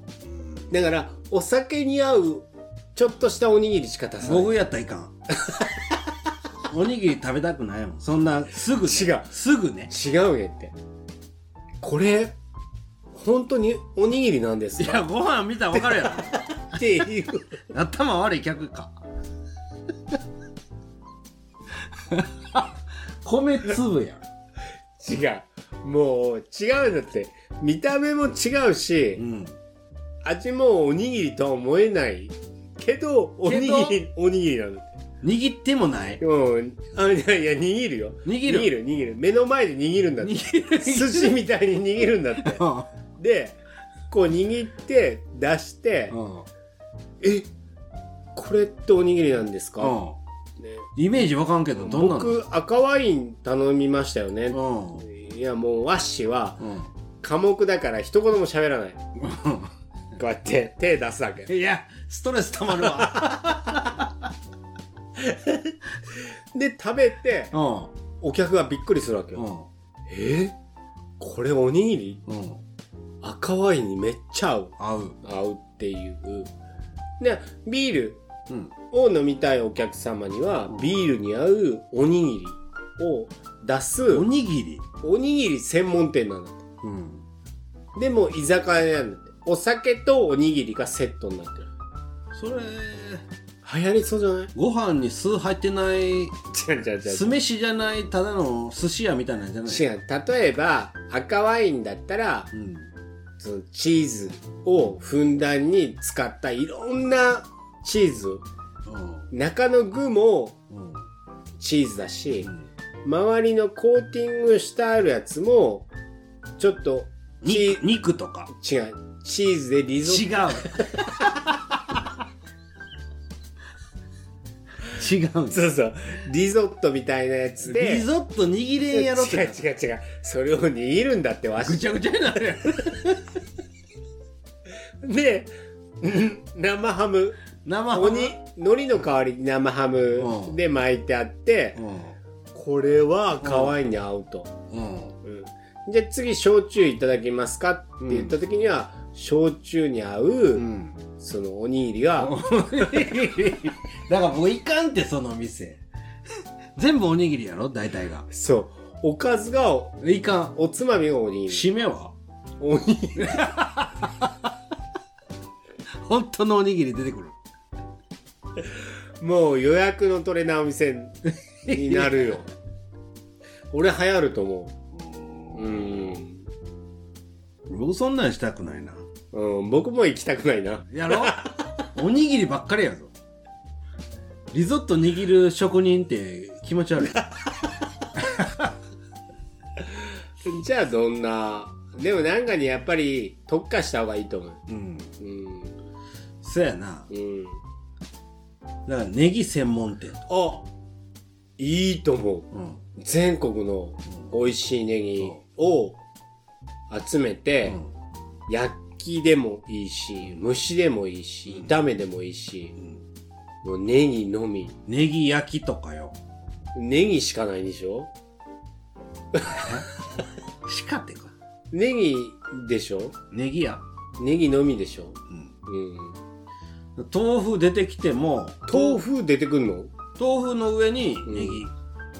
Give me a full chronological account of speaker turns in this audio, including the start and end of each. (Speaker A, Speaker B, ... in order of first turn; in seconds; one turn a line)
Speaker A: 0.2-0.7
Speaker B: 0.7-4.5
Speaker A: 4.2-5.1
Speaker B: 5.4-5.9
Speaker A: 6.7-9.9
Speaker B: 8.7-9.3
Speaker B: 9.9-10.7
Speaker B: 11.8-12.3
Speaker B: 13.1-15.1
Speaker A: 14.8-16.5
Speaker B: 16.1-17.6
Speaker A: 17.7-19.0
Speaker A: 22.0-22.7
Speaker A: 23.2-24.2
Speaker B: 25.0-29.2
Speaker A: 29.2-29.5
Speaker B: 30.2-34.9
Speaker A: 33.4-34.0
Speaker A: 35.2-36.2
Speaker B: 36.2-42.6
Speaker A: 38.2-38.7
Speaker A: 40.2-41.4
Speaker A: 42.4-42.9
Speaker B: 43.2-43.6
Speaker B: 44.1-46.1
Speaker A: 46.1-46.5
Speaker B: 47.2-47.5
Speaker B: 48.3-50.0
Speaker A: 49.8-50.2
Speaker A: 51.0-52.4
Speaker B: 51.8-56.7
Speaker A: 54.5-55.0
Speaker A: 56.6-56.9
Speaker B: 57.2-59.0
Speaker A: 59.1-59.7
Speaker B: 60.2-61.5
Speaker A: 61.5-64.3
Speaker B: 62.8-63.3
Speaker B: 65.2-67.5
Speaker A: 67.5-67.9
Speaker B: 68.2-69.5
Speaker A: 69.3-69.7
Speaker B: 70.1-70.5
Speaker B: 71.2-72.2
Speaker A: 72.3-72.6
Speaker B: 73.2-76.5
Speaker A: 74.8-75.2
Speaker B: 77.2-78.2
Speaker B: 78.9-84.3
Speaker A: 84.1-84.8
Speaker B: 85.0-86.6
Speaker A: 86.8-87.2
Speaker B: 88.0-91.7
Speaker A: 92.3-93.2
Speaker B: 93.6-94.5
Speaker A: 94.5-96.3
Speaker B: 96.5-97.3
Speaker A: 97.0-99.9
Speaker B: 99.7-102.5
Speaker A: 102.5-102.9
Speaker B: 103.4-108.4
Speaker A: 108.8-109.3
Speaker B: 109.3-110.6
Speaker A: 110.7-111.0
Speaker B: 111.6-112.5
Speaker B: 113.0-115.9
Speaker B: 116.6-117.8
Speaker A: 117.4-118.5
Speaker B: 118.5-121.5
Speaker A: 120.0-121.1
Speaker A: 124.9-125.6
Speaker B: 125.5-128.0
Speaker A: 127.6-129.7
Speaker B: 128.9-131.9
Speaker A: 131.6-133.2
Speaker B: 135.0-135.5
Speaker B: 136.0-141.8
Speaker A: 137.6-138.4
Speaker A: 140.2-140.6
Speaker A: 141.8-142.2
Speaker B: 142.5-144.5
Speaker A: 143.4-143.7
Speaker A: 144.7-145.2
Speaker B: 145.2-150.7
Speaker A: 148.0-148.3
Speaker A: 150.5-151.0
Speaker B: 151.2-152.3
Speaker A: 152.2-155.8
Speaker A: 156.8-158.3
Speaker B: 158.3-161.7
Speaker A: 160.0-160.5
Speaker A: 161.5-162.1
Speaker B: 162.6-163.4
Speaker A: 163.2-164.3
Speaker A: 166.0-167.3
Speaker B: 169.2-172.5
Speaker A: 171.7-172.4
Speaker B: 173.7-174.8
Speaker A: 175.0-176.2
Speaker B: 175.5-176.4
Speaker A: 177.7-179.0
Speaker B: 179.3-181.8
Speaker A: 180.9-181.4
Speaker A: 181.9-183.1
Speaker A: 184.5-187.2
Speaker A: 188.2-188.7
Speaker B: 190.4-194.6
Speaker A: 194.7-195.1
Speaker B: 195.2-195.8
Speaker A: 196.4-197.1
Speaker B: 197.1-197.6
Speaker A: 198.8-200.2
Speaker B: 200.3-200.7
Speaker B: 201.6-206.0
Speaker A: 202.5-202.8
Speaker B: 206.9-207.8
Speaker B: 208.5-212.8
Speaker A: 211.5-211.8
Speaker B: 213.6-214.8
Speaker A: 214.9-216.2
Speaker B: 216.7-218.1
Speaker B: 219.3-219.7
Speaker A: 219.5-219.9
Speaker A: 220.6-221.3
Speaker B: 221.7-223.2
Speaker A: 223.3-223.8
Speaker B: 224.2-226.2
Speaker A: 226.9-229.0
Speaker B: 228.7-229.9
Speaker A: 230.2-231.7
Speaker B: 231.2-231.7